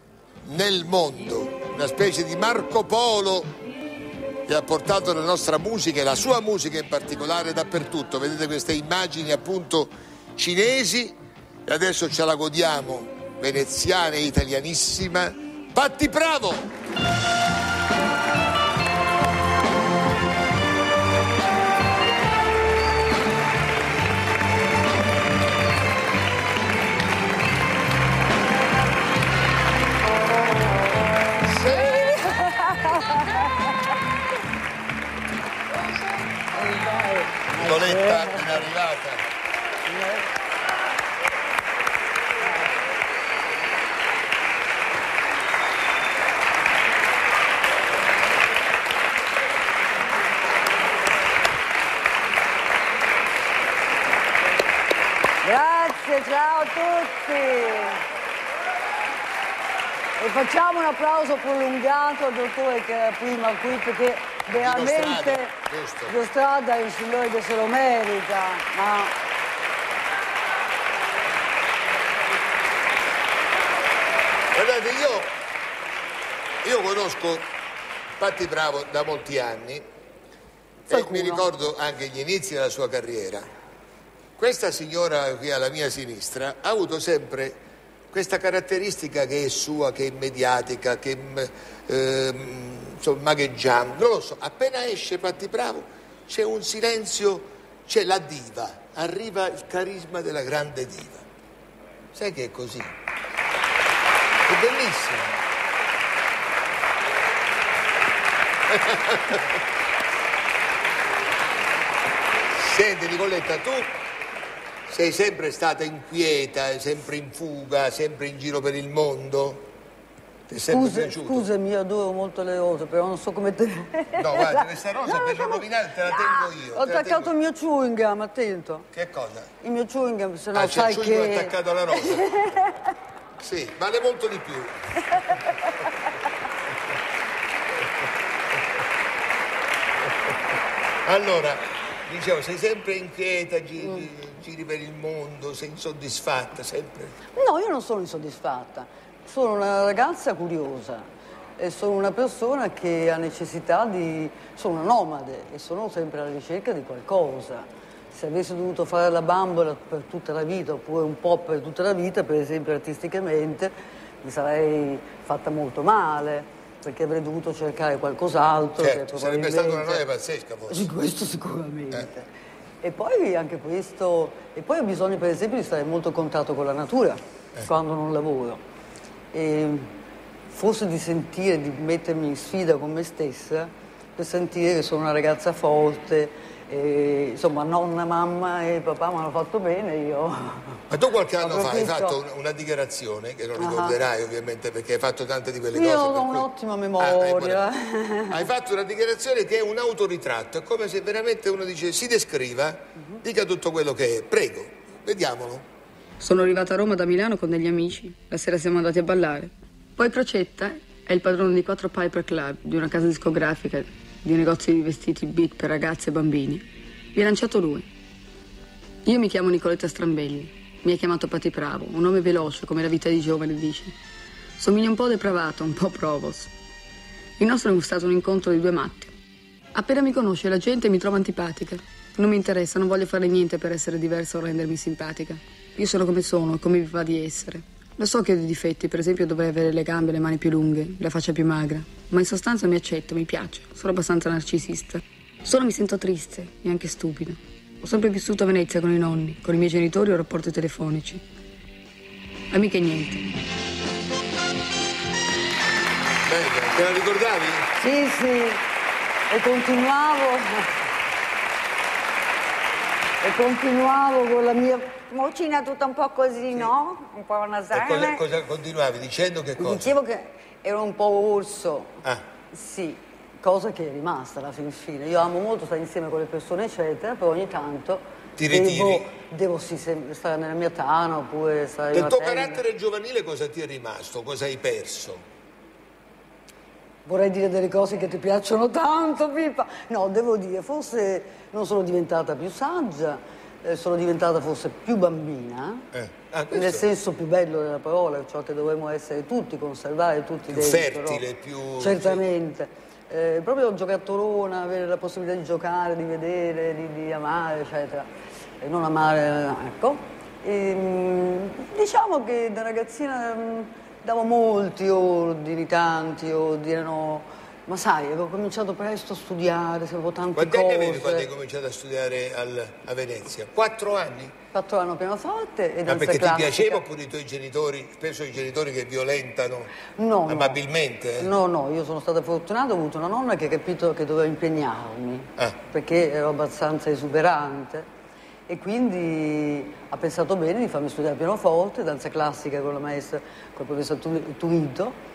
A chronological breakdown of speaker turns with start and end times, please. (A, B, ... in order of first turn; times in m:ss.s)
0:00.5-0:03.5 A
0:04.5-0:16.7 A
0:31.5-0:33.5 B
0:36.5-0:38.7 B
0:37.5-0:39.3 A
0:39.9-0:40.3 B
0:55.4-0:58.0 B
1:00.2-1:05.5 B
1:04.5-1:06.1 A
1:06.1-1:09.2 B
1:14.5-1:15.3 A
1:16.6-1:17.5 A
1:18.2-1:19.8 A
1:20.9-1:21.5 B
1:20.9-1:23.4 A
1:24.4-1:27.6 A
1:28.1-1:41.2 A
1:42.1-1:42.9 A
1:44.5-1:45.4 A
1:48.7-1:49.4 A
1:52.5-1:53.9 A
1:54.9-1:59.7 A
2:00.5-2:01.5 A
2:00.7-2:08.9 B
2:04.2-2:07.3 A
2:08.9-2:09.5 A
2:09.6-2:12.8 B
2:10.5-2:12.4 A
2:13.4-2:15.4 A
2:21.0-2:27.2 A
2:27.4-2:31.1 B
2:31.6-2:43.7 B
2:44.2-2:50.0 B
2:48.8-2:50.9 A
2:50.7-2:52.3 B
2:52.8-2:58.6 B
2:59.3-2:59.9 B
3:00.5-3:10.8 B
3:10.9-3:16.5 A
3:11.4-3:12.2 B
3:13.6-3:14.0 B
3:15.7-3:18.5 B
3:17.0-3:17.6 A
3:18.3-3:25.6 A
3:26.2-3:36.6 C
3:37.2-3:37.9 C
3:39.1-3:44.0 C
3:44.6-3:46.5 C
3:47.4-3:49.1 C
3:49.8-4:11.2 C
4:12.5-4:13.3 C
4:16.2-4:17.7 A
4:17.8-4:18.6 B
4:19.3-4:20.7 B
4:23.2-4:28.2 B
4:27.7-4:29.9 A
4:29.6-4:32.0 B
4:32.5-4:42.6 B
4:38.4-4:39.1 A
4:41.9-4:45.2 A
4:47.0-4:55.8 B
4:55.9-4:56.9 A
4:56.5-5:01.2 B
5:00.5-5:02.2 A
5:01.8-5:08.1 B
5:08.6-5:21.3 B
5:20.3-5:24.3 A
5:24.5-5:26.8 B
5:25.9-5:29.8 A
5:29.9-5:30.6 B
5:30.3-5:31.3 A
5:31.2-5:37.8 B
5:38.5-5:44.9 B